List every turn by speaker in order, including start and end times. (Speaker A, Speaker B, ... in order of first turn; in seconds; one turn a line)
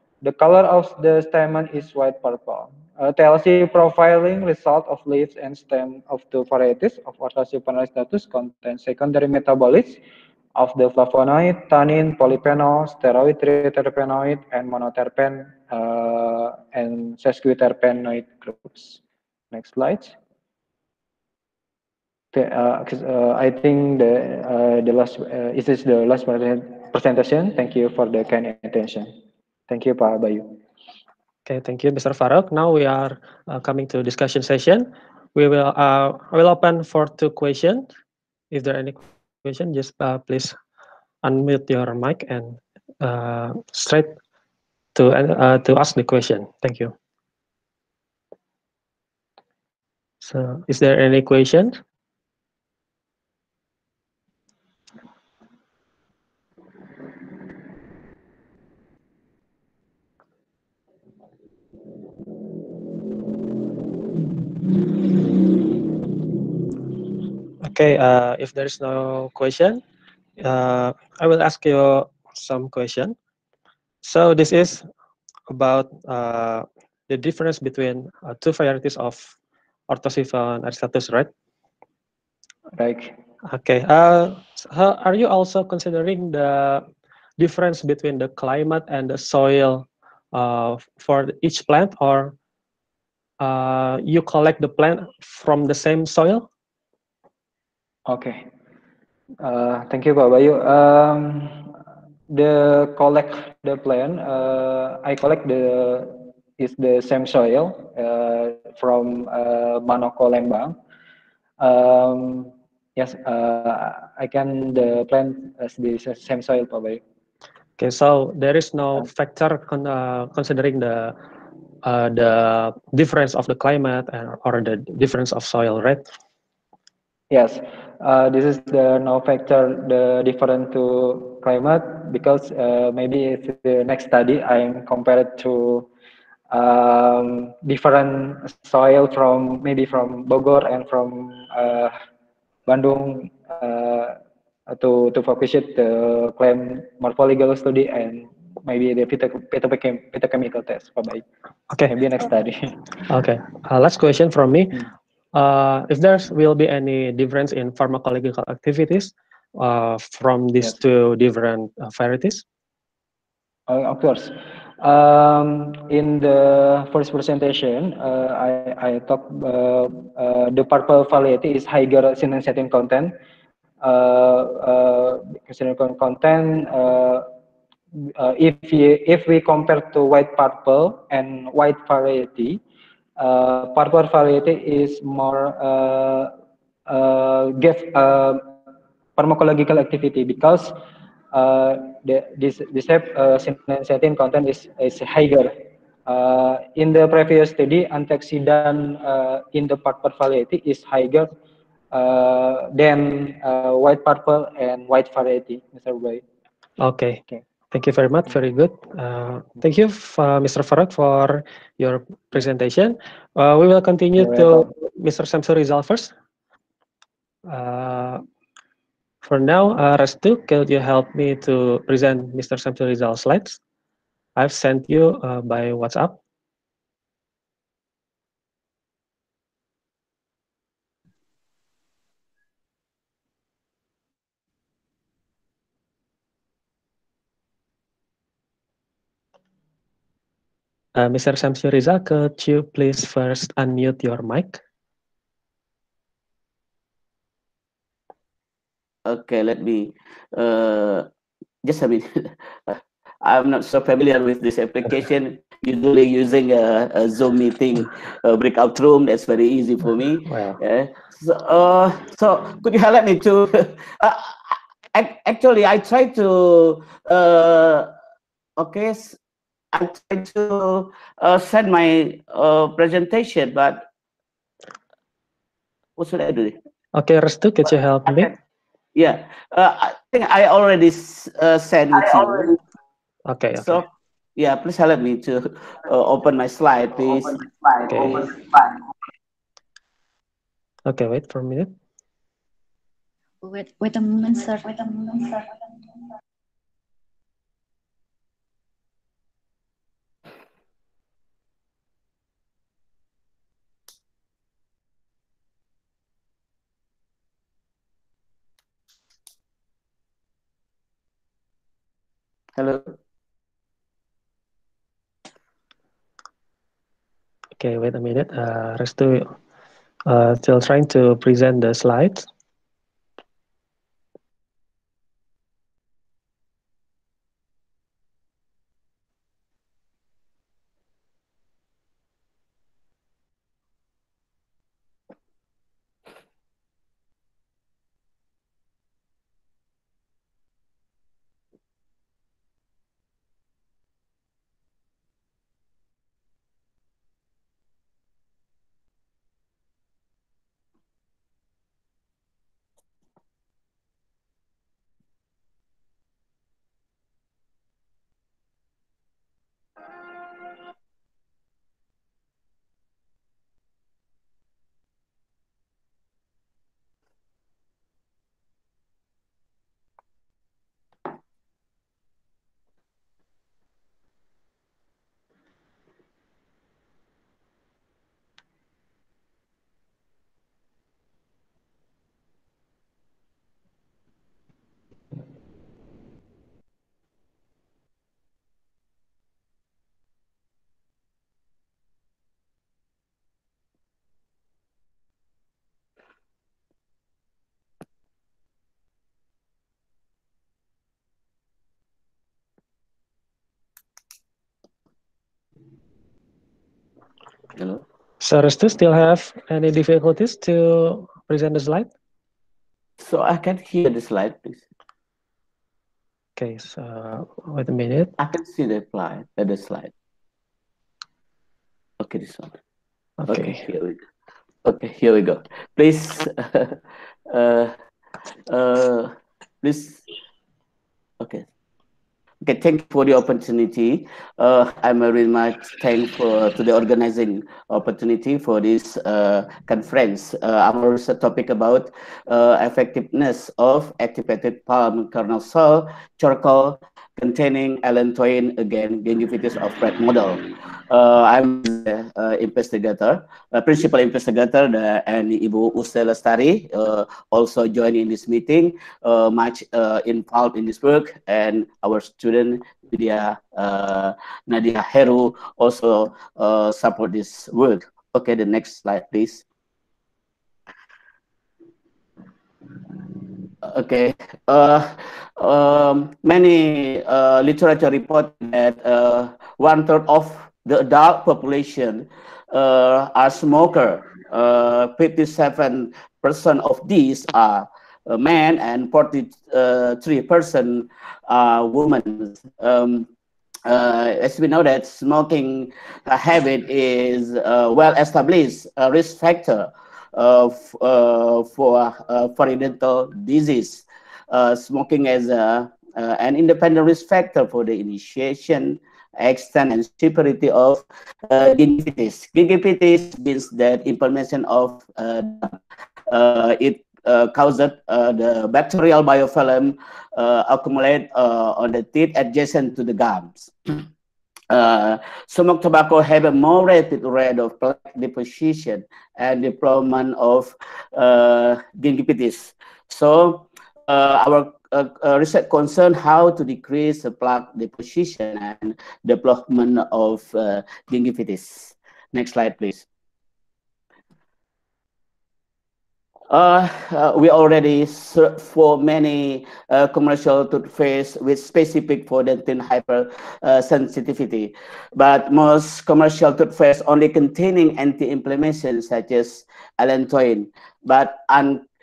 Speaker A: 0.2-10.0
Speaker A: 10.5-19.0
Speaker A: 19.5-20.1
Speaker A: 22.3-29.1
Speaker A: 29.7-30.6
Speaker B: 31.4-37.8
Speaker B: 38.5-40.5
Speaker B: 41.2-44.2
Speaker B: 44.9-46.9
Speaker B: 50.2-51.8
Speaker B: 67.6-69.8
Speaker B: 70.4-73.1
Speaker B: 74.0-74.8
Speaker B: 75.5-79.3
Speaker B: 79.9-81.3
Speaker A: 82.8-83.2
Speaker B: 83.5-86.8
Speaker B: 87.4-92.3
Speaker B: 93.4-96.5
Speaker A: 98.1-98.5
Speaker A: 99.4-101.7
Speaker A: 102.3-110.8
Speaker A: 111.6-117.0
Speaker B: 117.8-121.2
Speaker B: 121.8-126.0
Speaker A: 127.3-135.9
Speaker A: 136.5-141.9
Speaker A: 142.7-144.2
Speaker A: 144.7-152.7
Speaker B: 153.1-154.8
Speaker B: 155.3-162.4
Speaker A: 163.7-173.1
Speaker A: 173.8-177.3
Speaker A: 178.0-182.6
Speaker A: 183.2-186.3
Speaker A: 186.9-188.5
Speaker A: 189.2-190.8
Speaker A: 191.3-195.5
Speaker A: 196.1-201.3
Speaker A: 201.9-206.2
Speaker B: 206.8-216.1
Speaker A: 214.2-214.7
Speaker B: 217.5-218.2
Speaker B: 219.2-223.6
Speaker B: 224.3-226.2
Speaker B: 240.9-244.6
Speaker C: 249.1-251.1
Speaker C: 251.6-267.9
Speaker B: 260.3-260.6
Speaker C: 268.6-269.2
Speaker C: 269.7-273.8
Speaker C: 276.0-276.6
Speaker B: 276.9-278.3
Speaker C: 278.9-282.6
Speaker B: 283.2-283.8
Speaker C: 283.6-283.8
Speaker C: 284.4-288.8
Speaker B: 287.9-288.3
Speaker B: 290.9-291.7
Speaker D: 293.4-295.5
Speaker C: 312.6-312.9
Speaker B: 317.6-319.3
Speaker B: 320.1-322.3
Speaker B: 408.2-411.9
Speaker C: 413.0-414.6
Speaker B: 416.4-418.1
Speaker C: 418.2-419.9
Speaker C: 422.0-422.5
Speaker B: 423.2-423.7
Speaker C: 423.3-424.0
Speaker C: 424.6-426.8
Speaker C: 427.3-427.7
Speaker C: 428.5-430.0
Speaker C: 431.2-431.4
Speaker C: 432.4-469.4
Speaker C: 473.6-493.1
Speaker C: 493.6-523.8
Speaker C: 524.5-542.8
Speaker C: 546.3-561.6